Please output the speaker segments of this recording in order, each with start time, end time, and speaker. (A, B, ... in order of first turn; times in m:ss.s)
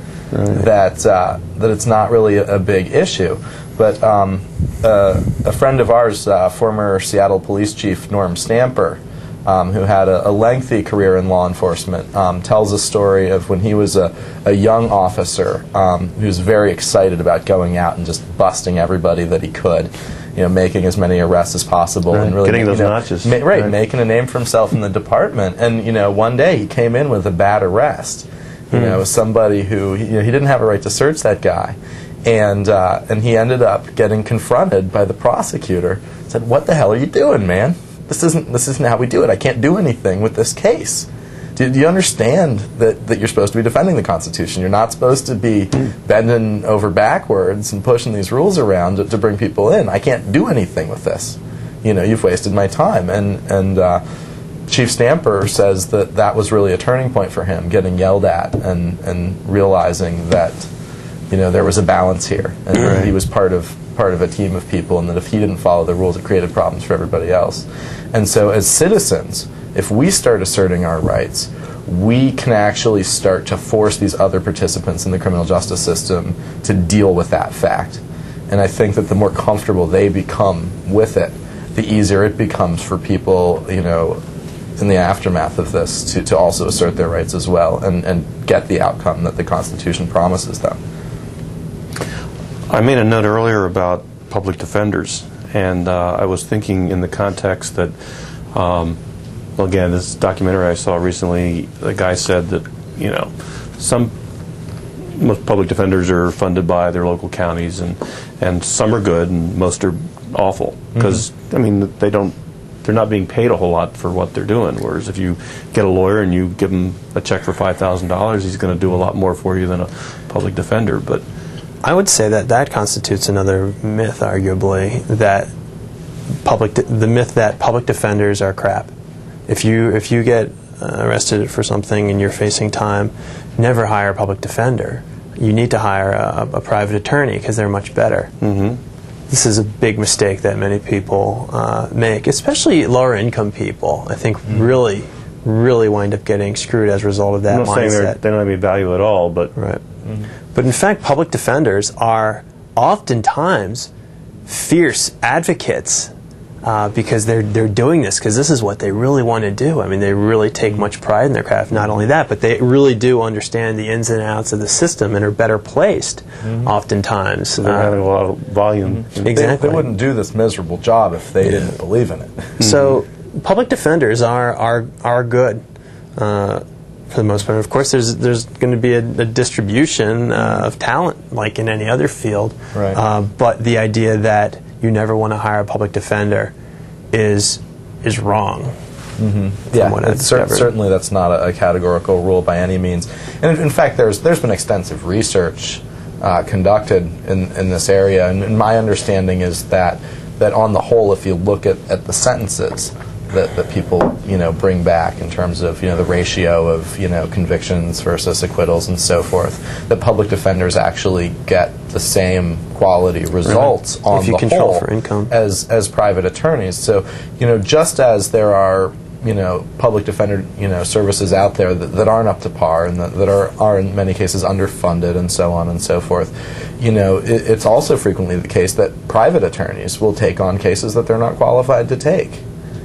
0:00.3-0:00.7 A
0:00.5-0:54.0 B
0:22.1-0:23.7 A
0:28.7-0:29.0 A
0:54.7-1:00.7 B
1:01.3-1:24.2 B
1:02.8-1:03.1 A
1:24.8-1:30.8 B
1:32.7-1:37.9 A
1:38.5-1:39.0 A
1:39.6-1:44.1 A
1:45.1-2:01.2 A
2:01.8-2:05.5 C
2:06.4-2:08.9 C
2:09.5-2:18.3 C
2:18.4-2:18.8 A
2:19.3-2:28.2 C
2:27.5-2:29.5 A
2:29.6-2:29.8 C
2:30.5-2:33.9 C
2:34.5-2:36.1 C
2:36.6-2:48.0 C
2:46.4-2:46.7 B
2:47.6-2:49.5 A
2:49.0-2:52.5 B
2:49.2-2:49.8 C
2:52.6-2:53.0 A
2:52.6-2:55.6 C
2:56.2-3:06.5 C
3:00.4-3:00.7 B
3:02.7-3:03.0 B
3:07.1-3:08.7 C
3:09.2-3:52.4 B
3:09.7-3:10.7 C
3:34.1-3:35.3 C